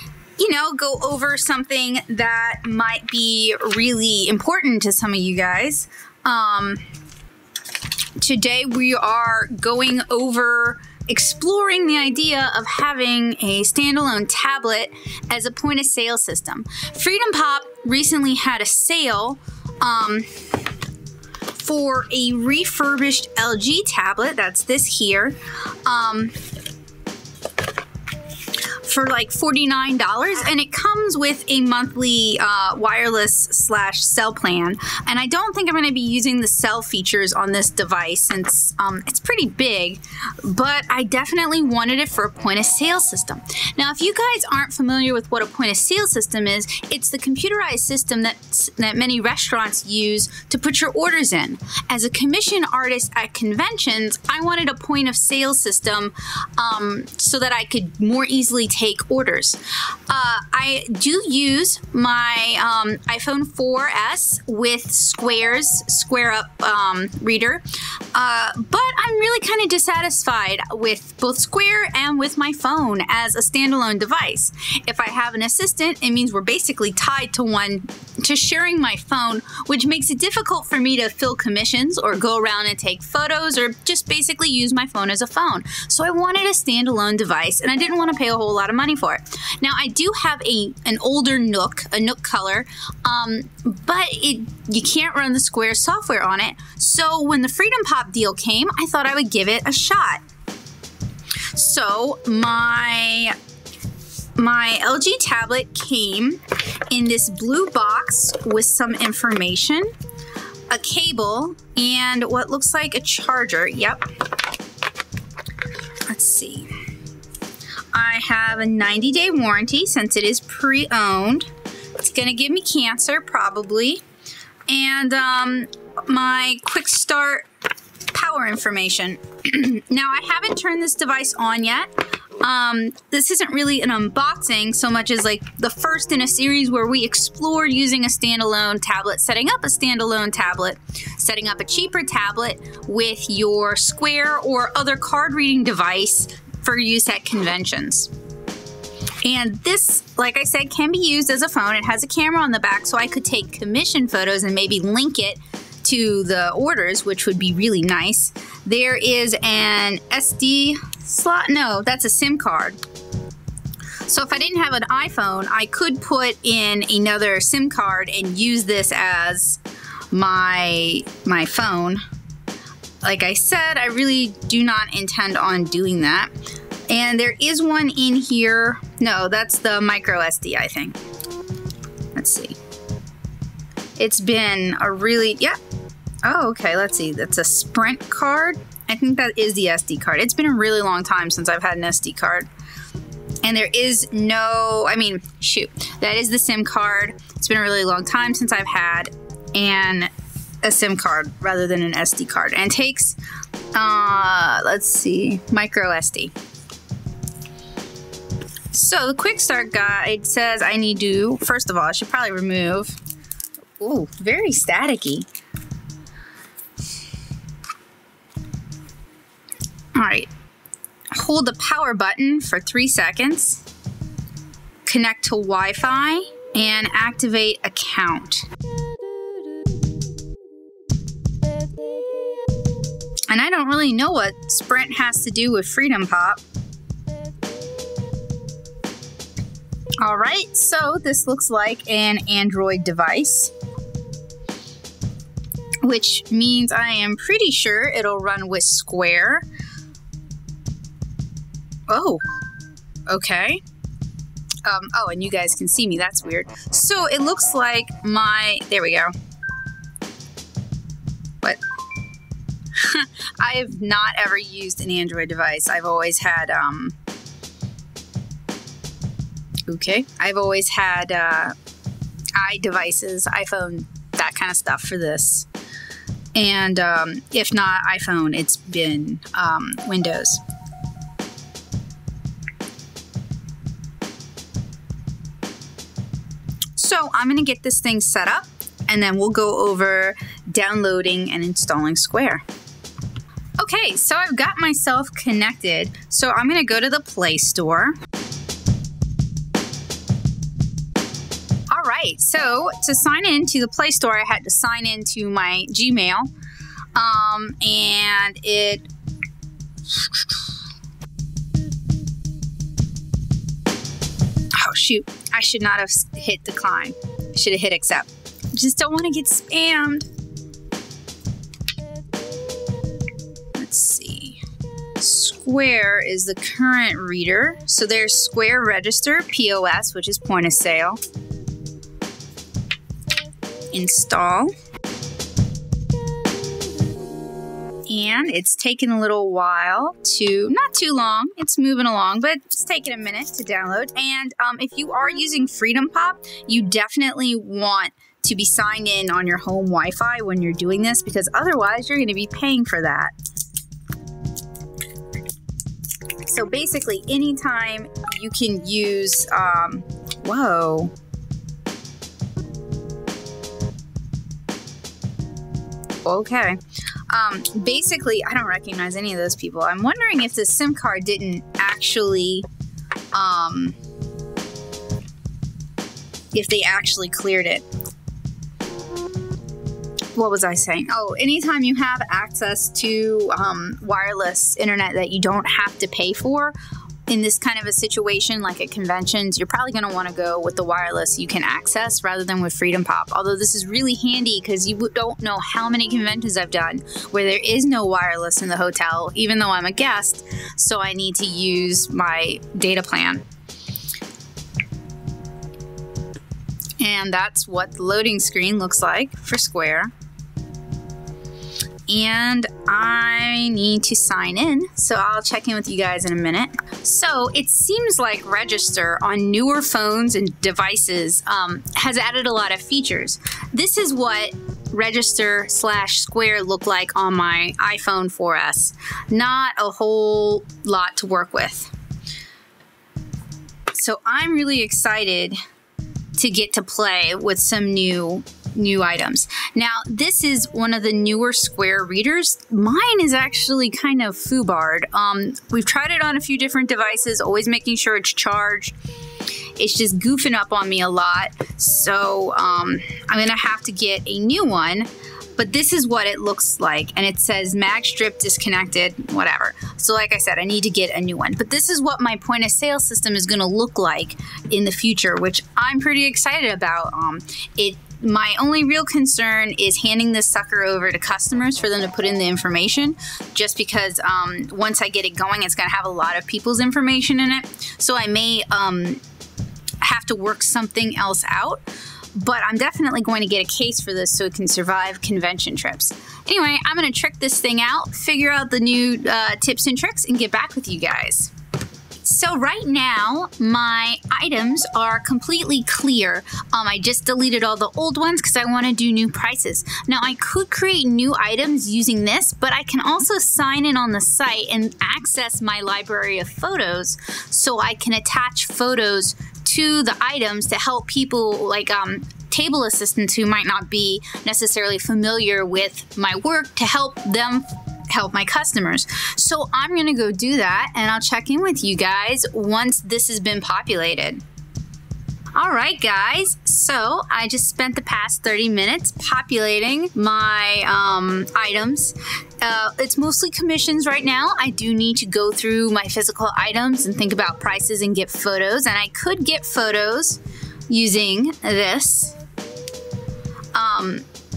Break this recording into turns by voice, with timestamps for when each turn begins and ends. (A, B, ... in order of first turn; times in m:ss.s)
0:00.4-0:06.8 A
0:08.2-0:20.4 A
0:21.5-0:26.3 A
0:28.8-1:40.2 A
1:41.5-1:43.3 A
1:44.4-1:49.9 A
1:50.7-1:54.0 A
1:56.1-1:56.7 A
1:57.9-2:04.0 A
2:04.7-2:07.4 A
2:08.1-2:28.1 A
2:29.2-2:42.8 A
2:44.0-2:49.6 A
2:50.1-2:52.0 A
2:53.0-2:56.3 A
2:56.9-3:01.0 A
3:02.1-3:02.6 A
3:04.0-3:05.6 A
3:06.2-3:12.5 A
3:13.4-3:20.1 A
3:20.6-3:23.2 A
3:23.7-3:26.3 A
3:28.7-3:33.0 A
3:33.8-3:35.3 A
3:39.9-3:40.3 A
3:41.1-3:43.6 A
3:44.8-3:48.5 A
3:53.3-3:56.4 A
4:00.0-4:03.5 A
4:05.8-4:09.4 A
4:11.9-4:12.2 A
4:13.1-4:13.6 A
4:14.6-4:19.1 A
4:22.8-4:27.0 A
4:29.7-4:31.5 A
4:32.4-4:35.5 A
4:36.3-4:40.4 A
4:46.8-4:52.4 A
4:53.6-4:58.0 A
5:01.7-5:06.3 A
5:06.9-5:08.9 A
5:14.6-5:20.1 A
5:23.6-5:24.4 A
5:25.0-5:31.0 A
5:33.7-5:34.5 A
5:37.9-5:53.1 A
5:56.2-6:00.9 A
6:06.0-6:12.4 A
6:13.1-6:13.8 A
6:16.3-6:17.6 A
6:20.1-6:26.6 A
6:27.1-6:43.2 A
6:46.8-6:49.9 A
6:51.9-7:11.7 A
7:13.7-7:15.4 A
7:16.2-7:28.7 A
7:29.6-7:59.0 A
7:59.8-8:01.6 A
8:02.1-8:11.3 A
8:12.0-8:44.2 A
8:45.3-9:02.2 A
9:03.5-9:04.0 A